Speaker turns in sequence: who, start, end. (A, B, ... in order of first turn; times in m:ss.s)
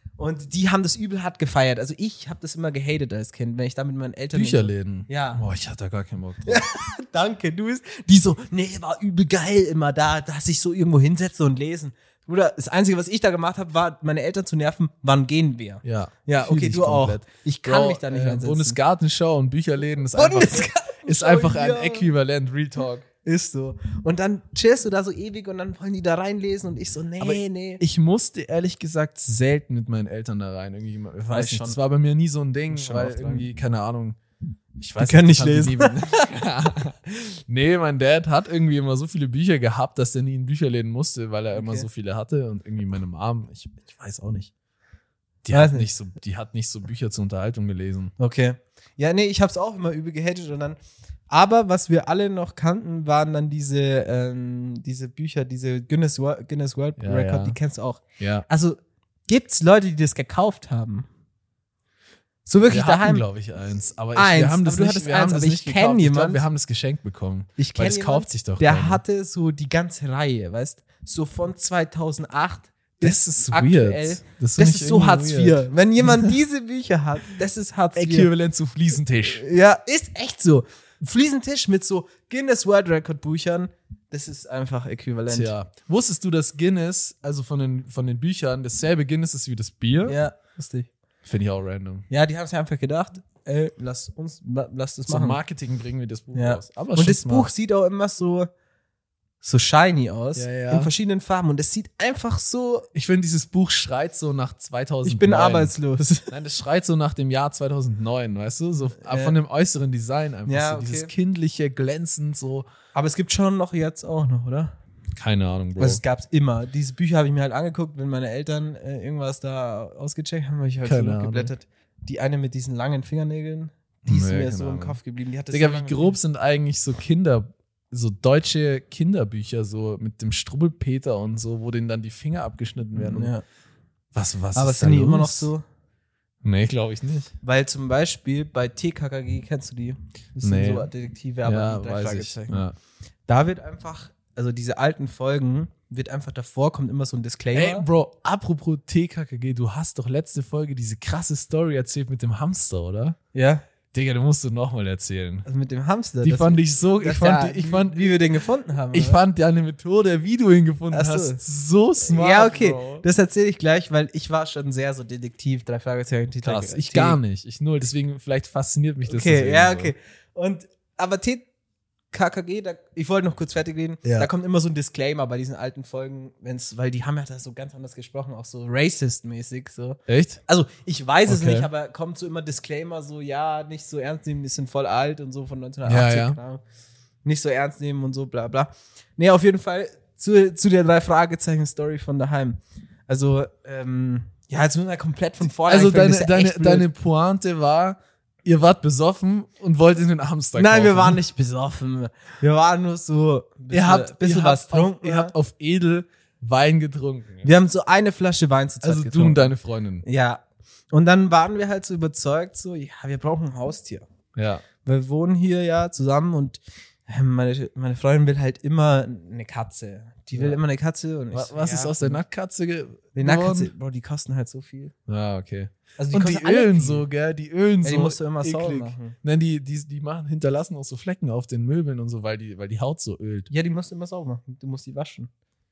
0:00.2-0:05.4 A
0:04.3-0:06.6 B
0:06.4-0:18.8 A
0:15.8-0:23.0 B
0:20.1-0:22.1 A
0:23.2-0:27.8 A
0:27.2-0:34.2 B
0:31.3-0:31.8 A
0:32.7-0:33.5 A
0:34.8-0:44.5 B
0:35.0-0:36.2 A
0:41.5-0:41.9 A
0:45.4-0:48.1 B
0:45.5-0:45.9 A
0:48.2-0:50.8 A
0:51.3-1:01.0 A
0:57.0-0:57.6 B
0:58.2-0:58.5 B
1:02.4-1:03.2 A
1:02.7-1:09.0 B
1:04.1-1:06.4 A
1:07.6-1:18.3 A
1:13.0-1:16.3 B
1:17.9-1:19.4 B
1:19.2-1:25.5 A
1:25.3-1:30.2 B
1:30.0-1:30.9 A
1:31.2-1:32.0 B
1:32.1-1:35.4 A
1:35.1-1:37.5 B
1:36.3-1:38.5 A
1:39.4-1:42.9 A
1:40.3-1:40.9 B
1:42.9-1:52.7 B
1:45.0-1:46.3 A
1:49.0-1:49.4 A
1:50.5-1:51.1 A
1:52.9-1:54.7 A
1:55.2-1:56.0 B
1:55.8-2:06.1 A
2:00.8-2:01.5 B
2:04.0-2:05.0 B
2:05.5-2:13.3 B
2:12.9-2:13.4 A
2:14.1-2:15.5 B
2:14.5-2:15.6 A
2:16.4-2:17.3 B
2:17.4-2:22.6 A
2:20.4-2:20.9 B
2:21.4-2:22.8 B
2:23.3-2:27.8 A
2:27.5-2:33.2 B
2:33.3-2:33.6 A
2:33.9-2:35.5 B
2:35.4-2:39.2 A
2:36.2-2:38.2 B
2:38.9-2:43.0 B
2:40.9-2:41.4 A
2:42.0-2:47.2 A
2:46.4-2:49.9 B
2:49.0-2:51.5 A
2:52.1-3:06.6 A
2:54.0-2:54.3 B
3:00.1-3:00.4 B
3:01.3-3:01.7 B
3:05.8-3:06.4 B
3:07.2-3:16.9 A
3:15.6-3:21.2 B
3:20.5-3:25.3 A
3:23.7-3:27.5 B
3:27.4-3:34.0 A
3:28.8-3:30.0 B
3:34.4-3:34.6 B
3:34.8-3:42.2 A
3:40.3-3:40.6 B
3:41.3-3:43.7 B
3:43.2-3:44.9 A
3:45.1-3:53.5 B
3:46.0-3:47.0 A
3:47.8-3:49.1 A
3:53.5-3:55.3 A